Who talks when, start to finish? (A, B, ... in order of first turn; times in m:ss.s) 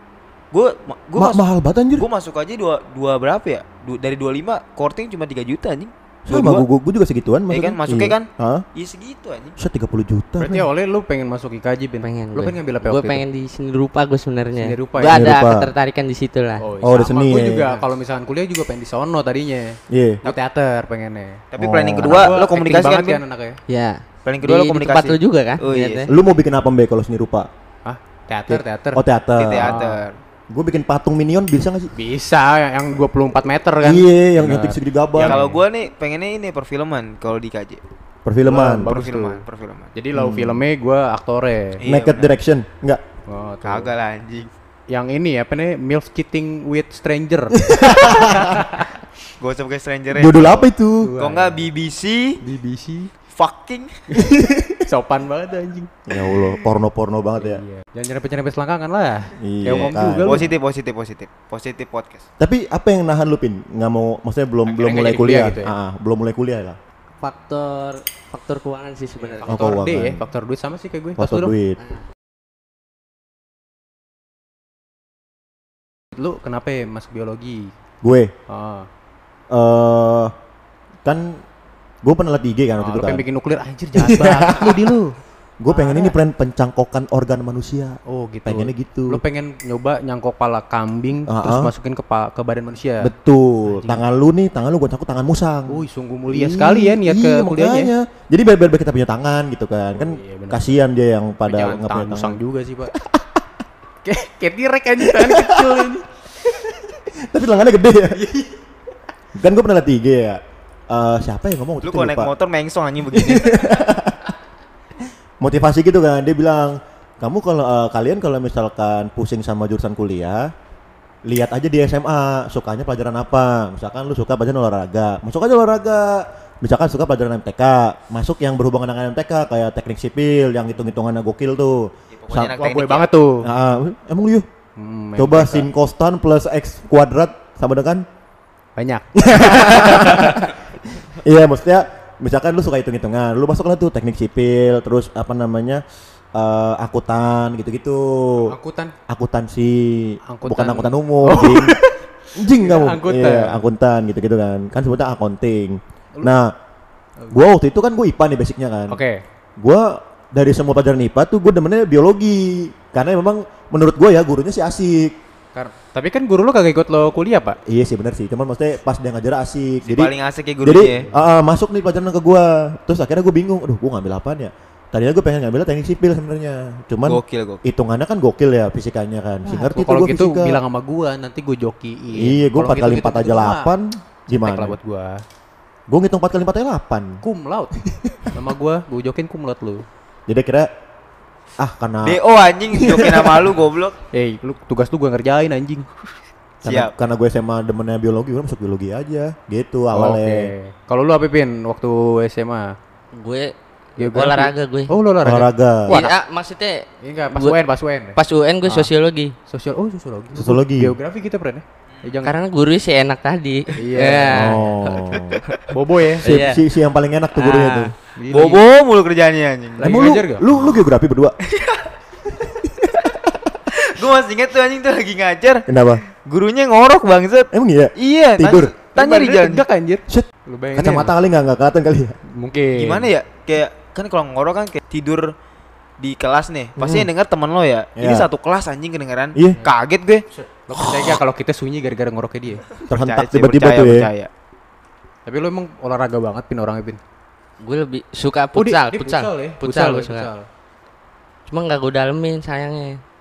0:00.5-0:01.4 A
0:01.2-0:02.1 B
0:02.0-0:06.6 A
0:06.3-0:08.6 B
0:07.5-0:09.6 A
0:09.6-0:10.7 B
0:10.4-0:13.2 C
0:12.0-0:16.7 D
0:14.6-0:15.3 C
0:15.1-0:15.7 B
0:16.6-0:21.4 C
0:16.8-0:17.8 B
0:19.9-0:20.2 B
0:21.5-0:23.2 A
0:21.6-0:22.4 B
0:22.0-0:23.6 C
0:23.7-0:26.1 D
0:24.3-0:26.1 A
0:26.1-0:27.5 B
0:27.8-0:29.0 C
0:28.5-0:29.8 B
0:29.4-0:30.2 A
0:29.6-0:30.0 C
0:30.5-0:31.9 B
0:31.9-0:35.6 C
0:33.8-0:35.4 B
0:35.2-0:37.8 A
0:38.2-0:38.9 B
0:38.5-0:39.4 C
0:38.8-0:39.9 A
0:40.0-0:41.8 C
0:40.1-0:40.6 B
0:41.8-0:42.3 A
0:41.8-0:43.0 B
0:43.3-0:43.9 C
0:43.6-0:44.5 A
0:44.9-0:48.9 C
0:47.6-0:48.6 B
0:49.4-0:50.7 A
0:50.1-0:51.1 B
0:51.0-0:51.7 C
0:51.2-0:52.4 A
0:52.4-0:53.1 C
0:53.4-0:54.0 A
0:54.1-0:55.9 C
0:54.3-0:54.8 B
0:56.1-0:57.6 B
0:57.4-1:00.5 C
0:59.4-1:00.5 B
0:59.8-1:02.2 A
1:02.4-1:06.8 B
1:04.7-1:05.7 C
1:07.2-1:09.8 D
1:09.2-1:11.5 C
1:09.5-1:10.3 B
1:11.2-1:11.8 B
1:16.1-1:17.7 C
1:18.0-1:18.3 B
1:18.5-1:18.9 C
1:19.5-1:20.3 B
1:21.0-1:21.4 B
1:22.0-1:23.2 B
1:22.8-1:25.2 C
1:24.0-1:25.0 B
1:25.6-1:29.2 B
1:25.7-1:26.1 C
1:28.1-1:33.1 C
1:31.3-1:31.7 B
1:33.0-1:42.4 B
1:33.7-1:34.0 C
1:35.7-1:37.9 C
1:40.0-1:40.7 C
1:41.5-1:42.9 C
1:42.9-1:43.4 B
1:44.0-1:46.7 C
1:45.0-1:45.9 B
1:47.2-1:48.3 B
1:48.2-1:48.5 C
1:49.4-1:52.3 B
1:51.8-1:53.6 A
1:53.1-1:54.3 B
1:55.4-2:00.5 B
2:01.3-2:12.6 B
2:12.1-2:13.1 A
2:12.6-2:13.5 C
2:13.4-2:14.5 B
2:14.8-2:15.7 C
2:15.2-2:18.0 B
2:18.8-2:20.6 C
2:19.2-2:20.5 B
2:21.2-2:25.8 B
2:26.3-2:28.5 B
2:28.5-2:28.9 C
2:29.1-2:31.8 B
2:30.3-2:33.6 C
2:32.4-2:36.5 B
2:37.3-2:39.0 B
2:38.9-2:39.2 C
2:39.6-2:45.2 B
2:45.5-2:47.6 C
2:47.7-3:00.6 B
2:49.9-2:51.0 A
2:50.9-2:51.1 C
2:57.0-2:57.6 A
2:59.4-3:03.7 C
3:02.1-3:04.8 B
3:04.3-3:05.2 C
3:05.9-3:07.2 B
3:07.2-3:09.8 C
3:07.9-3:08.3 B
3:10.3-3:10.7 B
3:11.6-3:13.5 B
3:12.0-3:14.0 A
3:14.1-3:16.1 C
3:16.6-3:20.5 B
3:16.7-3:16.9 A
3:19.9-3:22.8 C
3:23.1-3:24.9 D
3:24.0-3:26.2 C
3:25.2-3:26.0 B
3:25.9-3:27.6 D
3:27.0-3:28.9 C
3:28.2-3:29.4 D
3:29.5-3:32.4 C
3:30.4-3:31.0 B
3:32.2-3:35.2 D
3:33.8-3:34.6 C
3:34.3-3:35.4 B
3:35.7-3:36.3 C
3:36.2-3:36.6 D
3:36.2-3:37.9 B
3:37.4-3:37.9 D
3:38.2-3:38.6 C
3:38.3-3:40.8 A
3:39.8-3:40.4 C
3:39.8-3:41.4 B
3:41.4-3:41.9 A
3:42.4-3:43.6 B
3:43.7-3:45.7 A
3:45.7-3:46.0 B
3:46.2-3:49.6 A
3:47.5-3:48.7 B
3:49.0-3:51.2 C
3:50.1-3:52.2 B
3:52.3-3:53.1 C
3:52.8-3:55.3 A
3:56.0-4:00.2 A
3:56.8-3:57.1 B
3:58.0-3:58.3 B
4:00.3-4:02.6 C
4:00.7-4:01.2 B
4:02.9-4:04.1 B
4:03.0-4:04.3 A
4:05.3-4:07.0 C
4:07.6-4:10.3 D
4:08.6-4:10.5 C
4:11.5-4:13.0 D